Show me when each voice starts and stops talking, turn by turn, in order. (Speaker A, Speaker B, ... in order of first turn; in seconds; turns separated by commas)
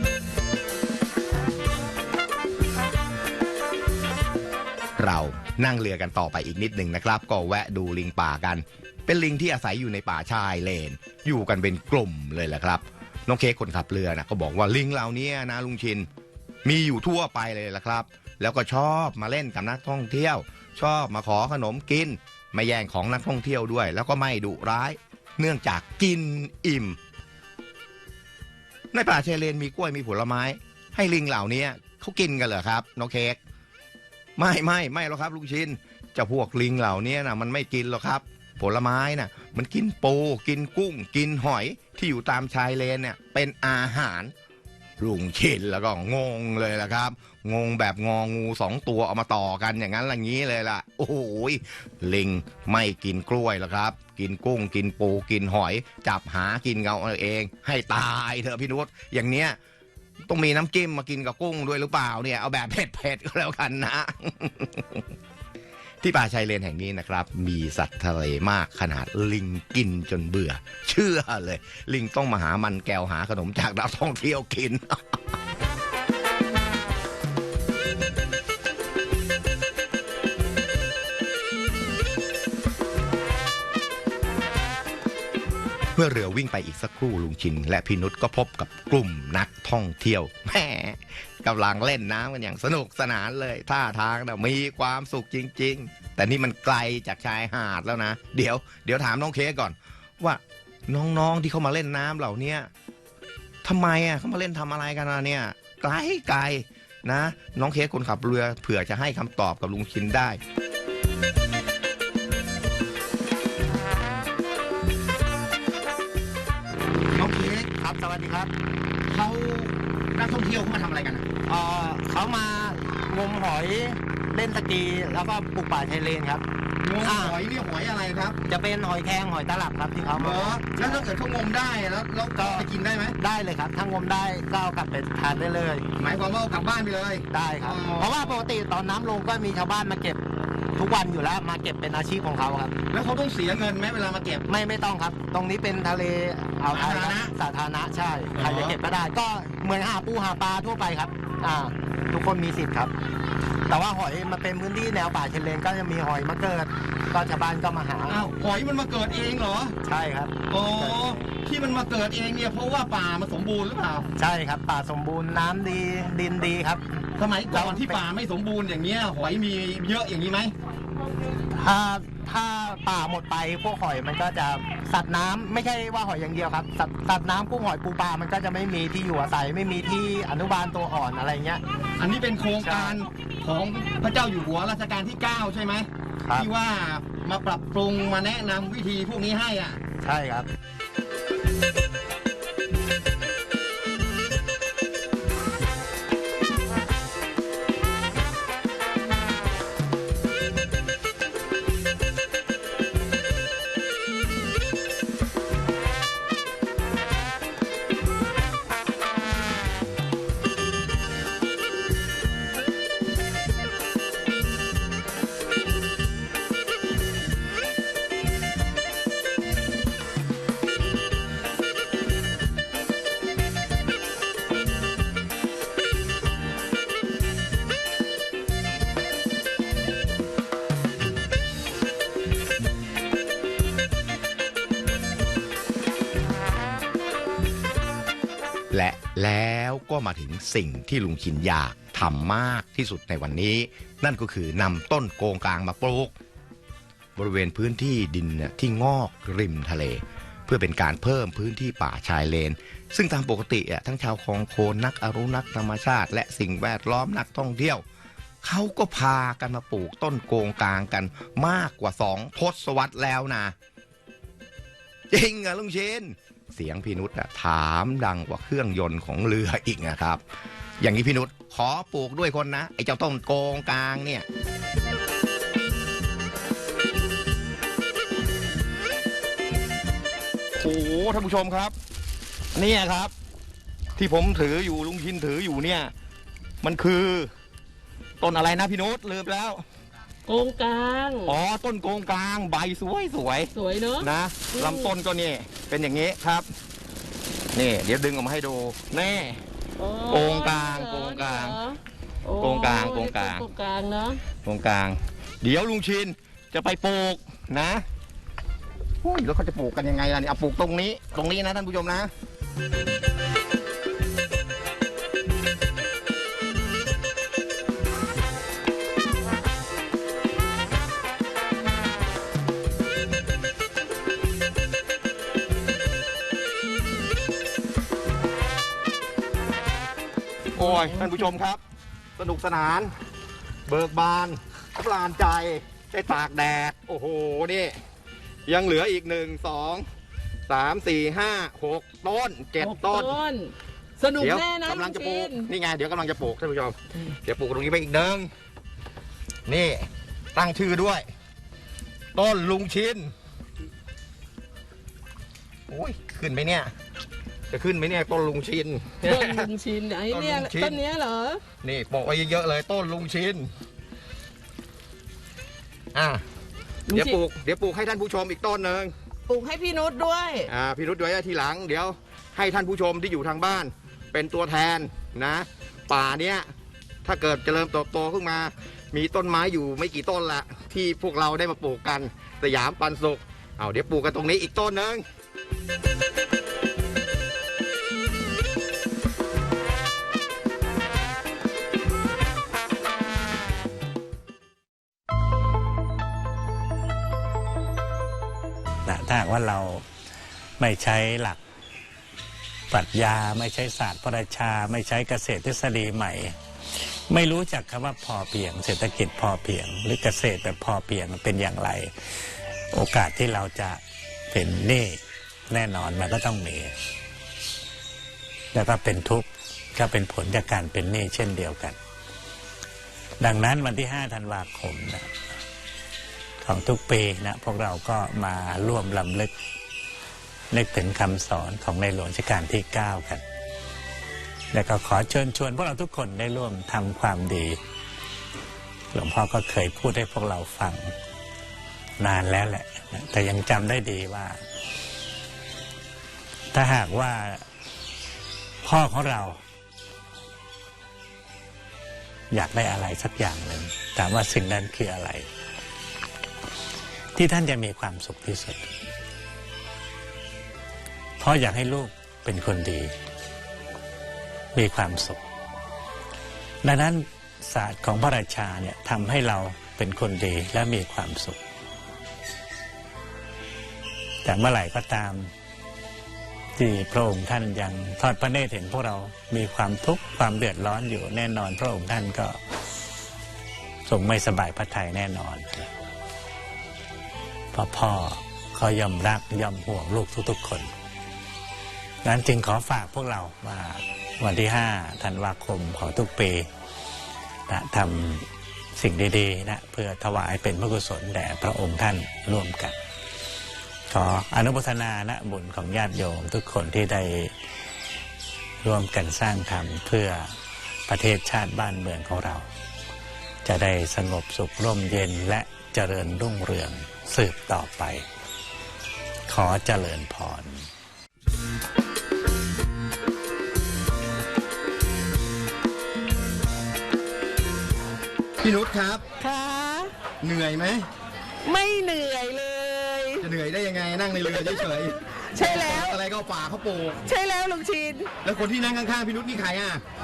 Speaker A: 5.0-16.1, Speaker A: 16.6-27.0, Speaker A: 28.9-33.4, Speaker A: 34.4-44.3, Speaker A: 45.0-59.6, Speaker A: 60.3-65.1, Speaker A: 66.0-75.2, Speaker A: 86.0-102.7, Speaker A: 103.6-110.4, Speaker B: 117.1-117.7, Speaker C: 117.8-118.5, Speaker B: 119.1-121.3, Speaker C: 121.5-126.4, Speaker B: 126.8-128.4, Speaker C: 127.0-127.4, Speaker C: 128.5-131.0, Speaker B: 130.2-133.2, Speaker C: 132.4-132.7, Speaker C: 133.2-135.9, Speaker B: 136.0-138.3, Speaker C: 137.3-140.2, Speaker C: 140.8-142.8, Speaker B: 142.9-144.4, Speaker C: 144.5-152.9, Speaker B: 146.7-147.3, Speaker B: 148.4-148.8, Speaker C: 153.7-158.3, Speaker B: 158.1-159.8, Speaker C: 159.8-161.3, Speaker B: 160.5-164.1, Speaker C: 164.2-166.8, Speaker B: 167.2-170.5, Speaker C: 167.5-168.0, Speaker C: 171.5-181.6, Speaker B: 182.0-189.8, Speaker C: 182.6-183.0, Speaker C: 186.2-186.5, Speaker C: 190.0-190.5, Speaker A: 238.7-246.1, Speaker A: 247.2-257.9, Speaker A: 258.4-263.5, Speaker A: 265.1-270.2, Speaker A: 270.8-274.3, Speaker B: 280.6-281.8, Speaker B: 282.6-283.1, Speaker B: 284.0-285.9, Speaker B: 286.6-287.3, Speaker B: 288.2-289.6, Speaker D: 290.3-291.4, Speaker B: 291.2-296.5, Speaker D: 293.5-294.9, Speaker B: 297.6-299.4, Speaker D: 299.8-304.2, Speaker B: 300.1-301.6, Speaker B: 302.4-303.4, Speaker B: 304.4-307.8, Speaker B: 309.0-312.1, Speaker B: 330.6-331.6, Speaker D: 330.6-331.2, Speaker B: 332.2-332.9, Speaker B: 333.7-337.8, Speaker B: 338.5-339.9, Speaker B: 340.5-343.2, Speaker D: 342.6-345.5, Speaker B: 344.2-348.3, Speaker B: 349.5-351.1, Speaker B: 352.1-353.1, Speaker B: 355.7-356.7, Speaker B: 357.5-359.5, Speaker D: 359.0-361.4, Speaker B: 360.1-360.8, Speaker B: 361.6-363.5, Speaker B: 365.9-366.2, Speaker D: 366.9-367.2, Speaker B: 366.9-368.9, Speaker D: 369.3-370.5, Speaker B: 370.5-376.5, Speaker B: 377.0-385.1, Speaker E: 398.9-399.9, Speaker E: 400.6-401.4, Speaker E: 402.7-416.7, Speaker E: 418.5-421.8, Speaker E: 423.2-425.1, Speaker E: 426.4-429.3, Speaker E: 430.5-433.2, Speaker E: 434.5-437.6, Speaker E: 438.9-440.9, Speaker E: 442.0-444.4, Speaker E: 446.5-447.5, Speaker E: 448.6-449.4, Speaker E: 452.3-455.3, Speaker E: 457.1-458.7, Speaker E: 461.2-462.9, Speaker E: 464.5-465.2, Speaker E: 466.6-471.4, Speaker E: 474.2-475.3, Speaker E: 476.6-482.4, Speaker E: 483.9-485.7, Speaker E: 487.5-490.7, Speaker E: 492.0-496.5, Speaker E: 497.5-502.8, Speaker E: 503.9-507.3, Speaker E: 508.6-510.4, Speaker E: 510.9-512.5, Speaker E: 513.5-518.0, Speaker E: 519.3-520.7, Speaker B: 528.4-529.0, Speaker D: 529.2-529.9, Speaker B: 530.2-530.9, Speaker D: 531.5-533.3, Speaker B: 533.2-537.0, Speaker D: 534.5-536.0, Speaker D: 537.1-538.1, Speaker B: 538.2-539.8